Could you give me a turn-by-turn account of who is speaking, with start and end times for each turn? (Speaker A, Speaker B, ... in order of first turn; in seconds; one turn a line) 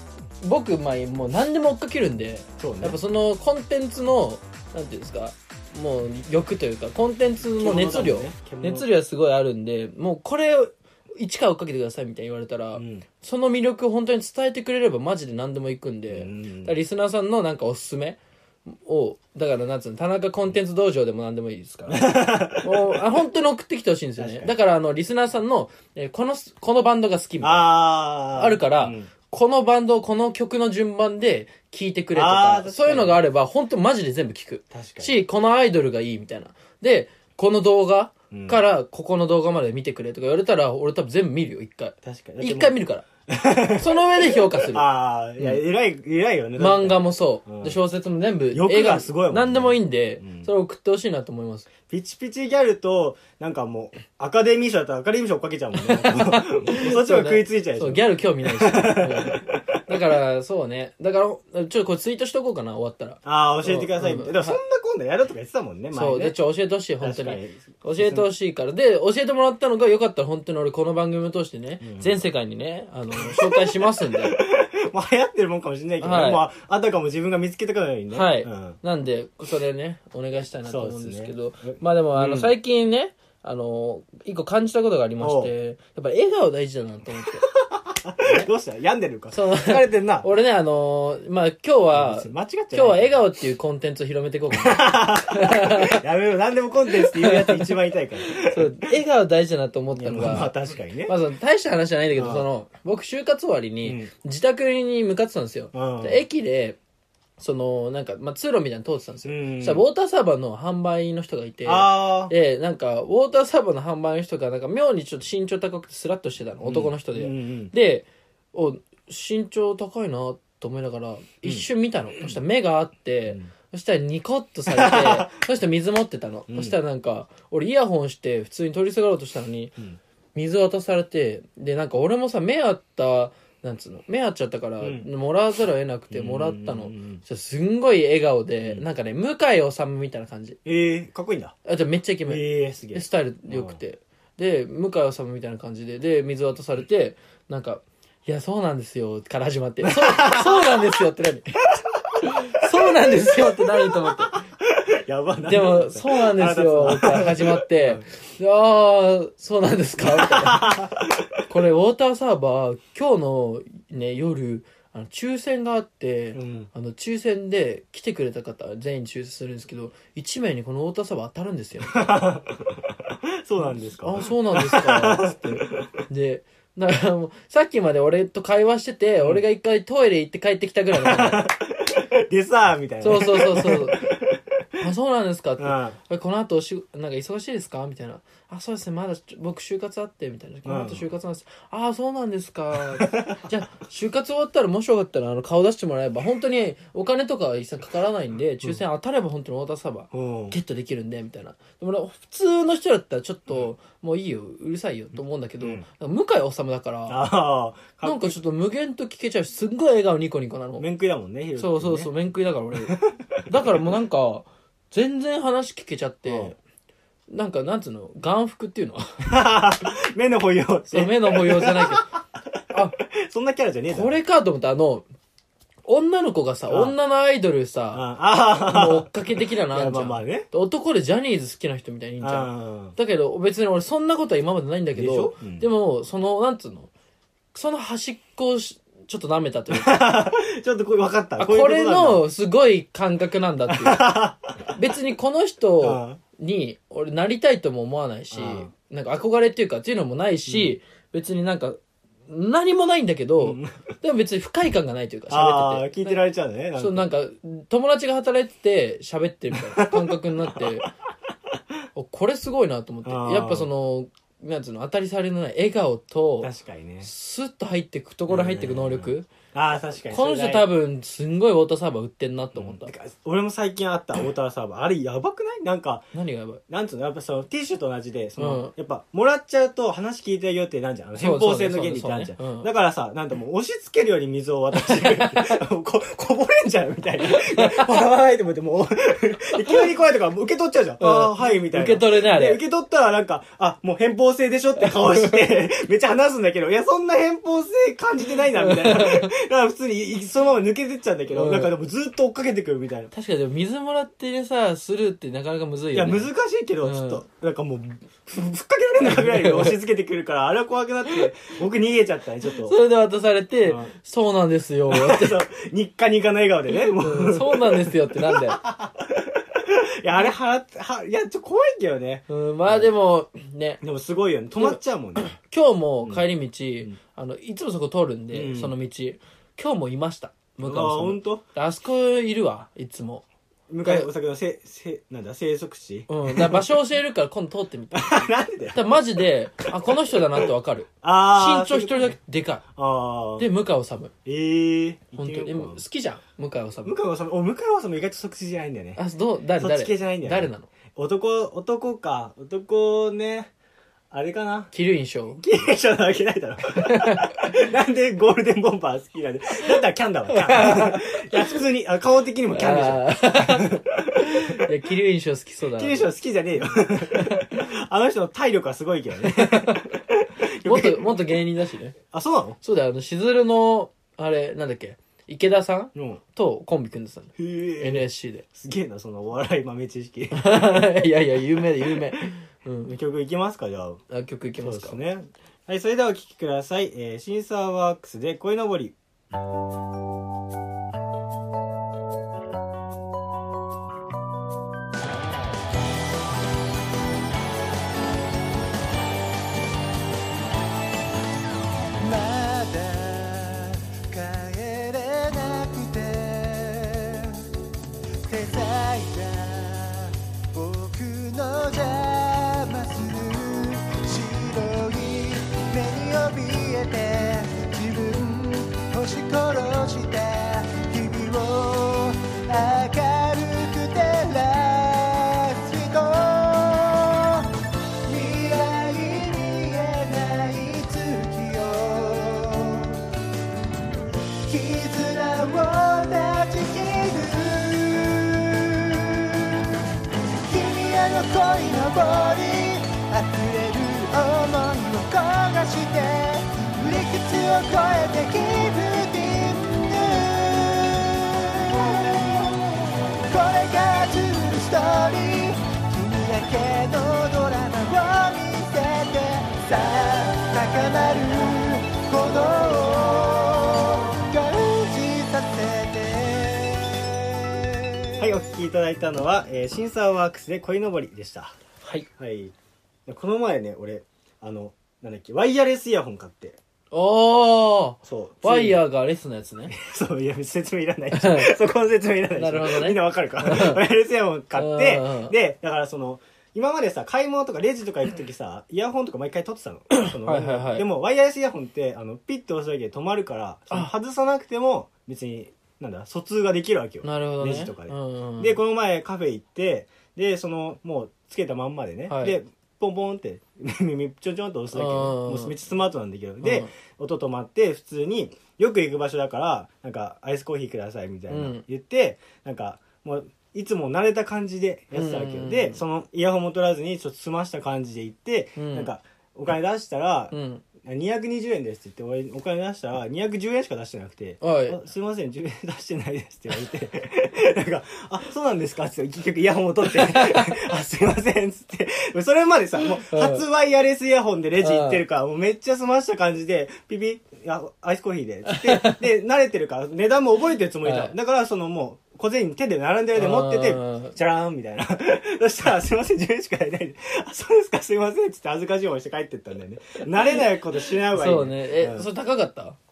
Speaker A: 0.4-22.1
Speaker B: 2.6-3.0
Speaker B: 7.6-8.9
Speaker B: 12.7-13.0
Speaker B: 16.1-16.7
Speaker B: 21.9-23.0
Speaker A: 22.6-27.8
Speaker B: 24.2-24.5
Speaker B: 27.4-29.1
Speaker A: 28.3-43.0
Speaker B: 32.1-33.2
Speaker B: 34.7-35.1
Speaker B: 38.3-38.6
Speaker B: 42.0-42.8
Speaker B: 43.3-47.8
Speaker A: 43.7-44.9
Speaker A: 46.6-51.7
Speaker B: 48.5-50.5
Speaker B: 51.9-60.0
Speaker A: 55.9-64.6
Speaker B: 63.2-66.4
Speaker A: 65.9-74.3
Speaker B: 67.0-68.3
Speaker B: 71.8-72.2
Speaker B: 73.2-78.8
Speaker A: 76.0-76.4
Speaker A: 78.1-87.5
Speaker B: 80.7-82.5
Speaker B: 85.2-85.5
Speaker B: 87.5-90.3
Speaker A: 88.2-88.5
Speaker A: 89.3-96.0
Speaker B: 91.9-93.2
Speaker B: 94.5-98.9
Speaker A: 97.0-100.5
Speaker B: 99.9-101.2
Speaker A: 101.0-106.8
Speaker B: 102.1-102.5
Speaker B: 103.8-104.1
Speaker B: 105.7-106.2
Speaker A: 107.4-129.7
Speaker B: 109.2-109.8
Speaker B: 111.7-112.3
Speaker B: 116.6-117.7
Speaker B: 124.7-125.4
Speaker B: 126.5-126.8
Speaker A: 130.3-140.6
Speaker B: 134.8-135.1
Speaker B: 136.1-137.2
Speaker B: 140.6-141.5
Speaker A: 141.6-151.5
Speaker B: 142.2-143.8
Speaker B: 149.8-150.9
Speaker B: 152.0-158.1
Speaker A: 152.2-154.4
Speaker A: 155.4-160.8
Speaker B: 160.0-161.2
Speaker A: 161.5-172.1
Speaker B: 166.3-166.7
Speaker B: 171.9-176.0
Speaker A: 174.0-181.5
Speaker B: 180.9-184.4
Speaker A: 183.0-184.1
Speaker A: 184.8-207.2
Speaker B: 185.6-186.0
Speaker B: 190.6-191.0
Speaker B: 193.0-193.4
Speaker B: 200.1-200.6
Speaker B: 205.6-205.8
Speaker B: 207.1-208.4
Speaker A: 208.0-210.8
Speaker B: 210.8-212.1
Speaker A: 211.6-216.5
Speaker B: 212.8-213.8
Speaker B: 216.2-216.6
Speaker A: 217.3-219.3
Speaker B: 219.2-222.2
Speaker A: 220.9-222.1
Speaker B: 223.0-224.1
Speaker A: 223.9-225.0
Speaker A: 225.8-236.9
Speaker B: 226.7-226.9
Speaker B: 227.9-230.5
Speaker B: 232.2-232.9
Speaker B: 234.9-235.7
Speaker A: 237.5-240.0
Speaker B: 239.7-242.2
Speaker A: 241.4-244.2
Speaker B: 243.7-244.8
Speaker A: 244.7-256.2
Speaker B: 245.8-246.2
Speaker B: 248.3-248.7
Speaker B: 250.5-250.7
Speaker B: 253.4-253.8
Speaker B: 255.3-257.1
Speaker A: 256.8-260.9
Speaker B: 259.5-260.9
Speaker A: 261.9-266.5
Speaker B: 263.0-263.7
Speaker B: 266.4-267.1
Speaker A: 267.0-269.3
Speaker B: 268.3-270.7
Speaker A: 270.1-272.9
Speaker B: 272.5-276.1
Speaker A: 276.1-276.6
Speaker B: 276.7-303.1
Speaker A: 278.4-278.7
Speaker A: 281.1-282.7
Speaker A: 284.7-285.6
Speaker A: 287.2-288.0
Speaker A: 291.0-292.6
Speaker A: 294.8-295.5
Speaker A: 298.6-299.3
Speaker A: 301.3-301.7
Speaker A: 303.1-306.3
Speaker B: 305.9-312.8
Speaker A: 306.8-307.2
Speaker A: 309.0-309.8
Speaker A: 312.6-315.4
Speaker B: 313.6-313.9
Speaker B: 314.9-322.9
Speaker A: 316.9-318.6
Speaker A: 322.3-323.8
Speaker B: 323.8-325.4
Speaker A: 324.6-333.2
Speaker B: 328.3-328.7
Speaker B: 330.6-331.4
Speaker B: 333.7-336.7
Speaker A: 333.8-334.1
Speaker A: 336.1-342.6
Speaker B: 337.9-338.9
Speaker B: 340.0-340.5
Speaker B: 341.0-342.2
Speaker B: 342.7-343.5
Speaker A: 343.4-344.1
Speaker B: 344.2-345.8
Speaker A: 345.2-346.9
Speaker B: 346.8-349.0
Speaker A: 349.0-350.7
Speaker B: 349.6-353.5
Speaker B: 354.1-354.7
Speaker A: 354.7-355.4
Speaker B: 355.4-364.6
Speaker A: 356.8-357.4
Speaker A: 360.3-361.6
Speaker A: 362.5-366.1
Speaker B: 365.8-371.3
Speaker A: 367.1-367.6
Speaker A: 369.2-369.9
Speaker A: 370.6-371.9
Speaker B: 372.1-372.6
Speaker A: 372.6-378.4
Speaker B: 375.9-376.2
Speaker B: 377.4-380.9
Speaker A: 380.4-382.9
Speaker B: 381.8-382.2
Speaker B: 382.8-384.0
Speaker A: 384.1-385.0
Speaker B: 384.6-388.9
Speaker C: 402.0-407.5
Speaker C: 408.2-427.5
Speaker C: 428.0-433.1
Speaker C: 434.4-439.8
Speaker C: 440.4-452.6
Speaker C: 453.2-467.8
Speaker B: 468.2-471.6
Speaker A: 471.8-472.1
Speaker B: 472.1-472.5
Speaker B: 473.1-476.6
Speaker A: 476.9-479.7
Speaker B: 478.0-478.8
Speaker B: 479.7-552.1
Speaker A: 481.1-481.6
Speaker A: 482.4-483.8
Speaker A: 484.6-485.3
Speaker A: 490.0-490.9
Speaker A: 497.0-498.6
Speaker A: 502.1-502.4
Speaker A: 504.7-505.5
Speaker A: 506.4-506.7
Speaker A: 511.3-511.6
Speaker A: 514.9-515.8
Speaker A: 518.6-518.9
Speaker A: 520.3-520.6
Speaker A: 524.4-524.8
Speaker A: 530.0-530.5
Speaker A: 533.0-533.4
Speaker A: 534.6-535.0
Speaker A: 538.5-539.0
Speaker A: 540.8-541.1
Speaker A: 543.1-544.1
Speaker A: 551.0-552.8